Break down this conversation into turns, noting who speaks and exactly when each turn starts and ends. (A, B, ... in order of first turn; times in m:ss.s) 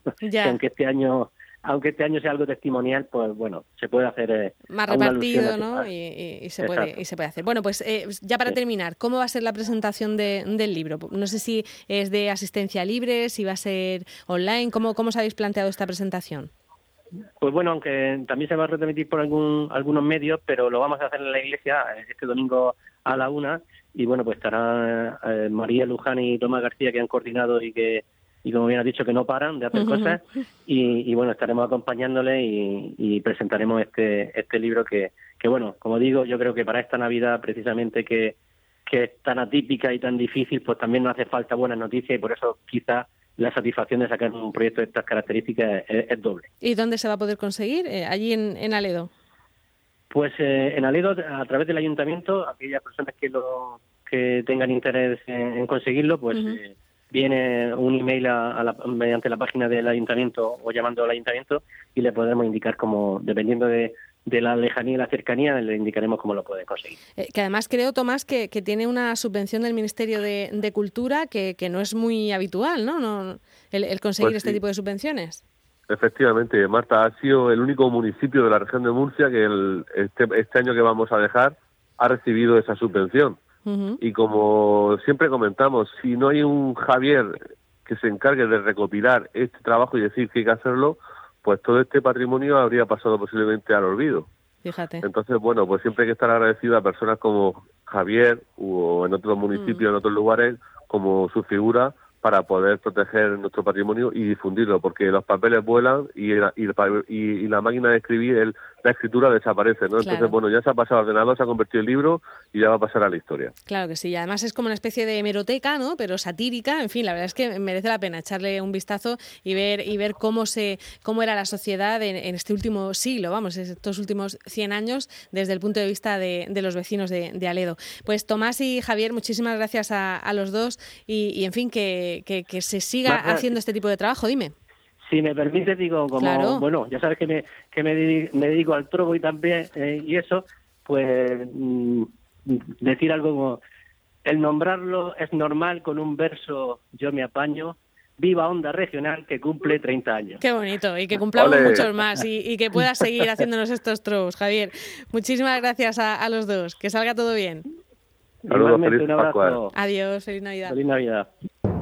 0:00.2-0:00.6 A
0:00.4-0:05.9 B
0:04.7-0:16.5 A
0:06.6-0:07.0 B
0:17.4-0:38.4 B
0:29.7-0:30.2 A
0:38.9-0:46.5 B
0:46.6-0:49.1 A
0:50.1-1:07.0 B
0:56.3-0:56.6 A
1:07.2-1:15.4 A
1:14.2-1:14.6 C
1:15.9-1:23.4 C
1:23.6-1:24.0 A
1:24.0-1:34.3 C
1:34.6-1:35.0 A
1:35.0-1:53.5 C
1:39.6-1:39.8 A
1:50.0-1:50.3 A
1:53.7-2:14.5 A
2:13.1-2:13.5 B
2:15.1-2:23.6 B
2:16.2-2:16.6 A
2:24.2-2:30.4 B
2:30.4-2:37.6 A
2:31.3-2:31.9 C
2:38.4-2:39.7 B
2:38.5-2:39.6 C
2:39.7-2:40.8 A
2:40.7-2:41.3 B